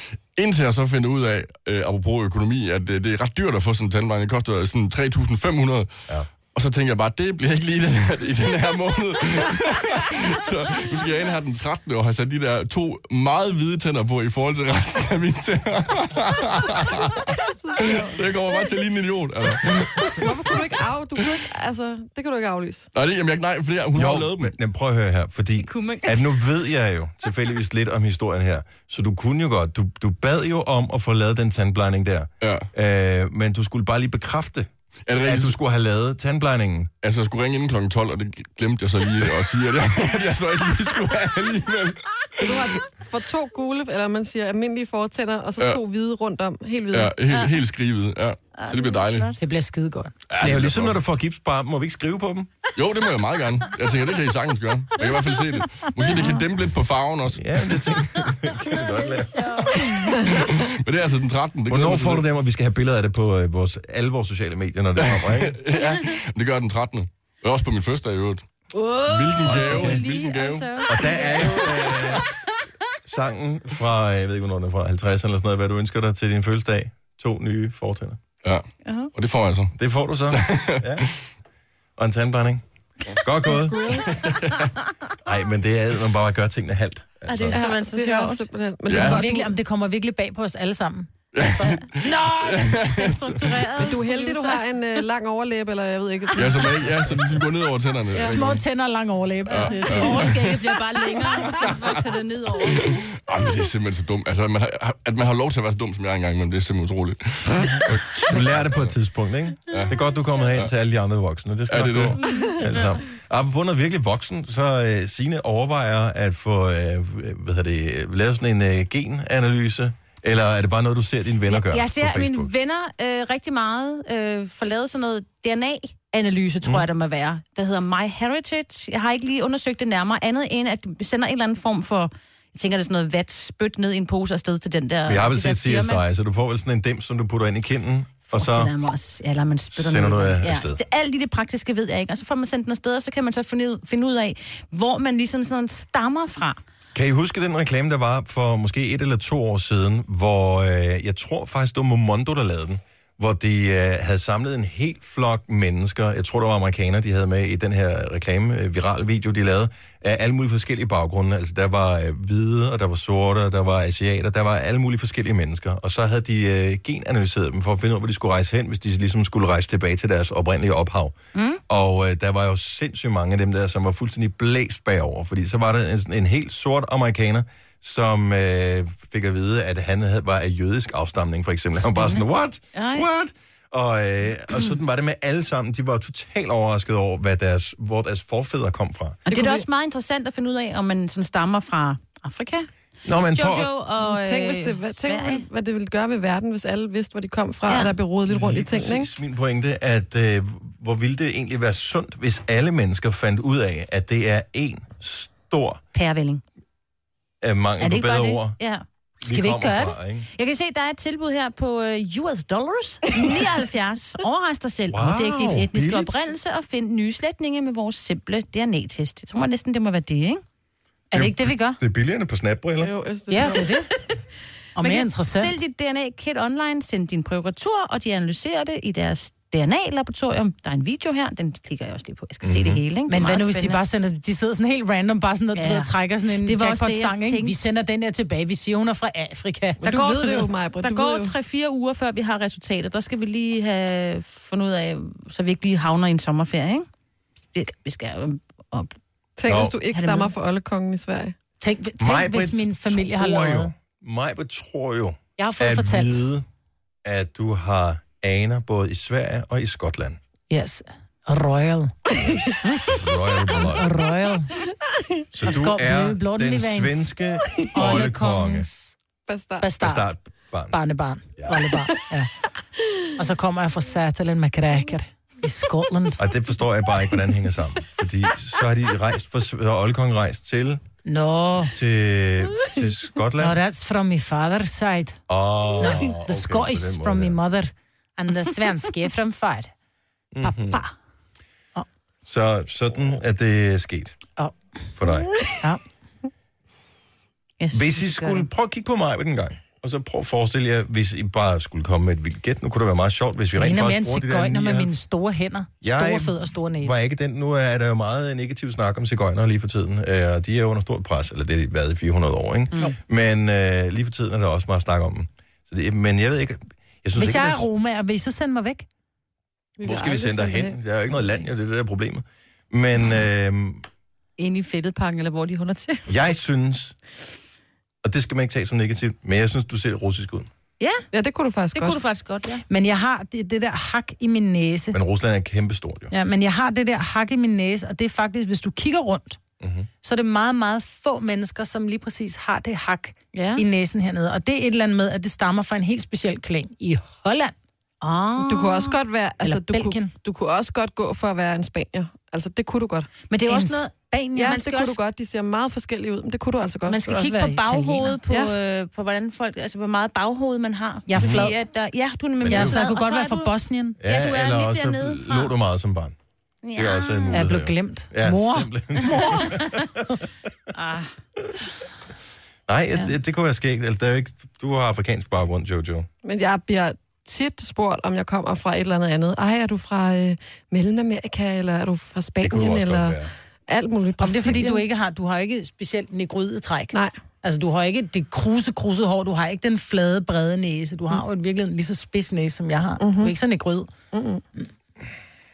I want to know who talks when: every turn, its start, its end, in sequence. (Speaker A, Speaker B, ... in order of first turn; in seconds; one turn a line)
Speaker A: 0.4-5.9
Speaker A: 6.5-20.6
Speaker B: 17.4-18.2
Speaker B: 19.6-22.9
Speaker A: 22.9-24.6
Speaker C: 23.9-34.7
Speaker D: 25.6-26.3
Speaker A: 32.4-32.7
Speaker A: 35.1-35.6
Speaker C: 35.3-36.9
Speaker A: 37.0-42.5
Speaker B: 42.4-47.1
Speaker A: 46.9-49.4
Speaker D: 48.5-49.4
Speaker E: 49.4-50.1
Speaker A: 50.3-51.0
Speaker C: 50.4-52.5
Speaker A: 52.8-57.9
Speaker C: 57.4-59.4
Speaker D: 59.3-60.0
Speaker B: 60.0-60.4
Speaker A: 60.6-62.3
Speaker C: 61.7-65.6
Speaker A: 65.0-68.5
Speaker E: 68.8-71.7
Speaker A: 69.1-71.2
Speaker C: 69.5-70.0
Speaker D: 69.5-71.9
Speaker C: 70.9-72.3
Speaker C: 73.0-78.2
Speaker A: 78.4-79.7
Speaker D: 78.8-79.1
Speaker C: 79.8-81.1
Speaker A: 80.3-81.0
Speaker C: 82.0-82.6
Speaker C: 83.2-84.3
Speaker B: 83.7-84.3
Speaker C: 85.2-87.7
Speaker D: 87.3-88.5
Speaker B: 87.5-89.5
Speaker A: 88.9-89.2
Speaker E: 89.0-92.8
Speaker A: 91.3-93.6
Speaker D: 92.1-94.6
Speaker B: 93.8-96.9
Speaker A: 96.4-98.6
Speaker E: 98.2-101.7
Speaker A: 99.5-102.0
Speaker D: 99.7-103.0
Speaker A: 102.6-109.0
Speaker C: 108.3-122.5
Speaker A: 109.7-110.7
Speaker A: 111.7-112.2
Speaker D: 112.2-112.8
Speaker D: 121.5-136.0
Speaker C: 135.1-138.7
Speaker D: 138.3-146.6
Speaker C: 139.7-140.8
Speaker C: 146.9-171.2
Speaker D: 171.3-171.6
Speaker C: 171.7-189.2
Speaker D: 182.7-183.1
Speaker B: 189.3-189.7
Speaker D: 189.3-192.7
Speaker C: 193.1-193.7
Speaker D: 193.3-195.5
Speaker B: 194.0-199.1
Speaker D: 197.7-197.9
Speaker C: 198.3-205.8
Speaker D: 205.9-206.4
Speaker C: 207.4-208.6
Speaker D: 207.8-220.4
Speaker C: 209.2-210.3
Speaker C: 214.9-216.3
Speaker E: 221.1-221.8
Speaker C: 221.1-222.9
Speaker B: 222.8-223.8
Speaker E: 223.3-223.9
Speaker E: 224.7-225.5
Speaker D: 224.8-233.8
Speaker C: 232.4-232.8
Speaker E: 233.1-240.4
Speaker D: 235.6-235.9
Speaker D: 236.4-237.6
Speaker B: 239.8-241.3
Speaker D: 239.8-246.9
Speaker D: 247.5-248.9
Speaker B: 249.4-251.3
Speaker C: 249.5-249.7
Speaker D: 249.9-250.3
Speaker E: 251.6-253.7
Speaker C: 252.0-256.4
Speaker E: 255.4-256.2
Speaker C: 257.1-260.2
Speaker E: 260.5-261.9
Speaker C: 262.2-264.0
Speaker E: 263.6-264.5
Speaker C: 265.3-268.7
Speaker E: 265.4-267.1
Speaker E: 267.7-268.9
Speaker B: 269.3-269.7
Speaker E: 269.6-270.1
Speaker C: 269.8-270.8
Speaker E: 270.7-272.3
Speaker C: 271.4-271.7
Speaker E: 273.2-276.2
Speaker C: 276.2-280.8
Speaker E: 281.1-281.7
Speaker C: 281.7-283.6
Speaker E: 283.4-285.2
Speaker C: 285.3-287.4
Speaker E: 285.8-289.7
Speaker C: 290.3-290.8
Speaker E: 290.4-290.9
Speaker C: 292.3-294.2
Speaker C: 294.9-295.4
Speaker D: 297.6-298.4
Speaker C: 297.7-304.9
Speaker E: 303.6-307.0
Speaker C: 305.8-317.7
Speaker E: 317.1-318.9
Speaker B: 319.8-321.2
Speaker C: 319.8-323.8
Speaker D: 324.4-326.1
Speaker C: 326.1-326.9
Speaker C: 328.0-330.5
Speaker D: 330.8-331.1
Speaker B: 331.1-332.0
Speaker D: 331.7-332.6
Speaker E: 332.7-335.0
Speaker C: 334.9-336.1
Speaker E: 336.1-339.4
Speaker C: 339.6-339.9
Speaker E: 340.0-347.6
Speaker B: 343.3-343.6
Speaker D: 348.0-349.0
Speaker B: 348.4-353.1
Speaker E: 349.4-350.1
Speaker D: 353.3-355.0
Speaker E: 353.5-354.5
Speaker B: 354.4-357.0
Speaker D: 356.9-365.5
Speaker E: 357.0-358.2
Speaker B: 358.3-358.5
Speaker E: 361.1-361.6
Speaker C: 361.2-361.5
Speaker C: 362.4-362.8
Speaker E: 362.5-364.0
Speaker C: 364.0-366.1
Speaker D: 366.6-367.5
Speaker C: 366.8-370.3
Speaker E: 367.3-369.5
Speaker D: 369.6-369.9
Speaker D: 370.7-371.1
Speaker C: 372.7-376.1
Speaker B: 376.2-384.9
Speaker C: 382.4-383.3
Speaker E: 384.2-393.9
Speaker B: 393.0-393.3
Speaker B: 394.1-394.4